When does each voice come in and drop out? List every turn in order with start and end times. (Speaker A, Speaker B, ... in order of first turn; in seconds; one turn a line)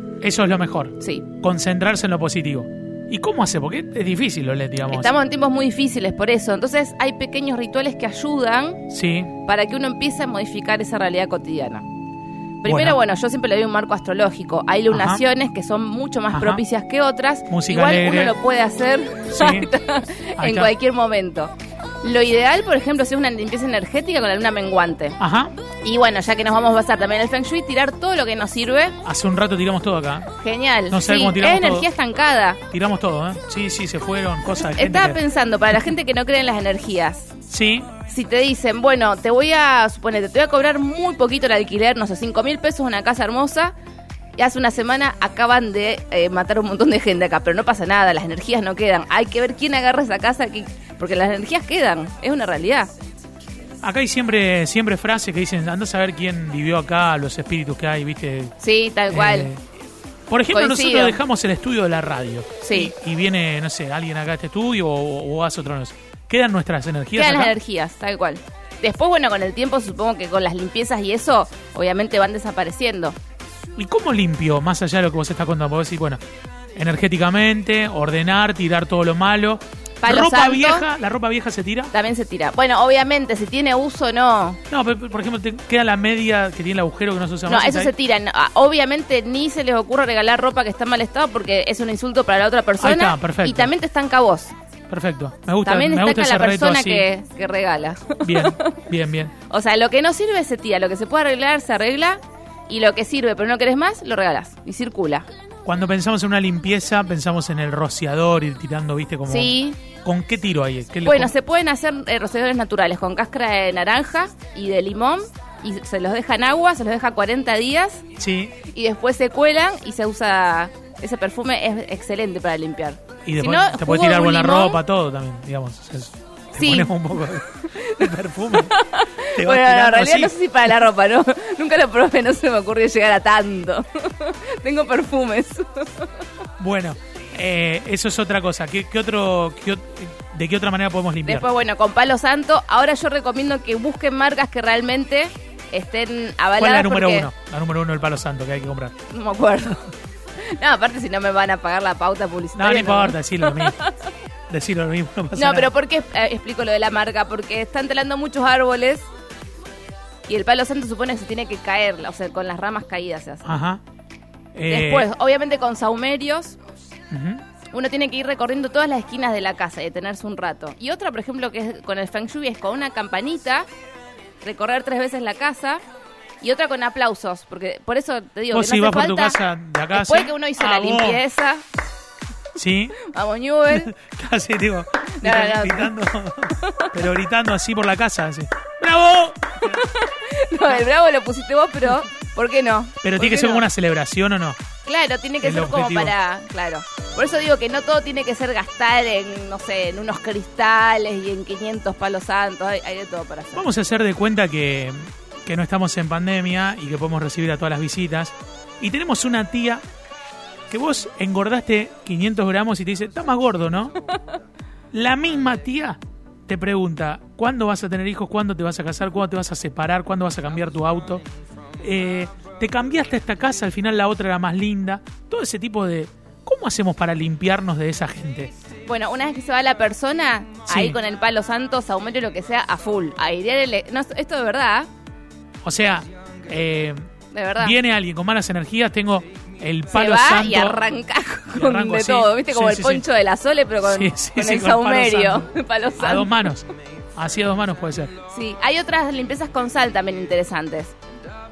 Speaker A: 0.2-5.1
Speaker B: 1.0-1.2
Speaker B: 4.9-8.8
Speaker A: 8.9-9.3
Speaker B: 9.4-11.8
Speaker B: 12.6-25.2
Speaker A: 12.6-13.0
Speaker A: 14.9-15.2
Speaker A: 16.3-16.6
Speaker A: 17.5-18.4
Speaker A: 19.3-19.7
Speaker A: 20.4-20.7
Speaker A: 25.2-25.5
Speaker B: 25.8-28.9
Speaker A: 29.0-30.3
Speaker B: 30.4-32.6
Speaker A: 30.9-31.9
Speaker A: 32.7-35.2
Speaker B: 34.6-37.3
Speaker A: 37.5-37.9
Speaker B: 38.0-43.7
Speaker B: 44.4-52.9
Speaker A: 53.8-58.5
Speaker B: 58.6-59.5
Speaker A: 59.1-59.6
Speaker A: 60.3-67.5
Speaker B: 60.5-61.2
Speaker B: 62.6-62.9
Speaker B: 67.1-73.2
Speaker A: 73.8-76.2
Speaker A: 76.8-81.9
Speaker B: 80.0-80.9
Speaker B: 81.9-84.6
Speaker A: 84.7-87.9
Speaker B: 87.5-94.5
Speaker A: 92.8-93.7
Speaker A: 94.9-97.1
Speaker B: 95.6-98.7
Speaker A: 98.2-99.3
Speaker B: 99.5-105.2
Speaker A: 105.6-111.3
Speaker B: 109.3-109.8
Speaker B: 111.0-118.0
Speaker A: 118.2-118.6
Speaker B: 118.7-124.8
Speaker A: 123.2-128.8
Speaker B: 126.5-127.0
Speaker B: 127.6-136.1
Speaker A: 129.3-130.3
Speaker A: 136.6-141.5
Speaker B: 141.2-147.3
Speaker A: 146.6-148.9
Speaker B: 149.1-149.8
Speaker B: 150.5-153.9
Speaker A: 152.5-153.8
Speaker A: 154.5-155.7
Speaker B: 155.3-159.0
Speaker B: 160.3-163.5
Speaker A: 163.4-163.8
Speaker A: 164.5-165.1
Speaker B: 164.7-166.6
Speaker A: 167.1-167.4
Speaker B: 167.7-173.7
Speaker B: 174.4-175.8
Speaker B: 176.4-179.4
Speaker A: 178.5-181.2
Speaker B: 179.9-181.6
Speaker A: 182.6-183.0
Speaker B: 183.0-183.9
Speaker A: 183.7-189.8
Speaker B: 185.1-185.9
Speaker B: 186.6-186.9
Speaker B: 189.6-193.7
Speaker A: 193.0-194.6
Speaker B: 194.8-203.6
Speaker A: 195.4-196.1
Speaker A: 203.5-209.8
Speaker A: 210.7-213.9
Speaker A: 214.9-221.2
Speaker A: 221.8-228.5
Speaker B: 228.8-234.9
Speaker A: 230.7-231.0
Speaker A: 235.6-237.0
Speaker B: 237.3-237.8
Speaker A: 237.6-240.8
Speaker B: 239.9-246.5
Speaker A: 241.5-243.0
Speaker A: 243.8-248.1
Speaker B: 248.3-250.9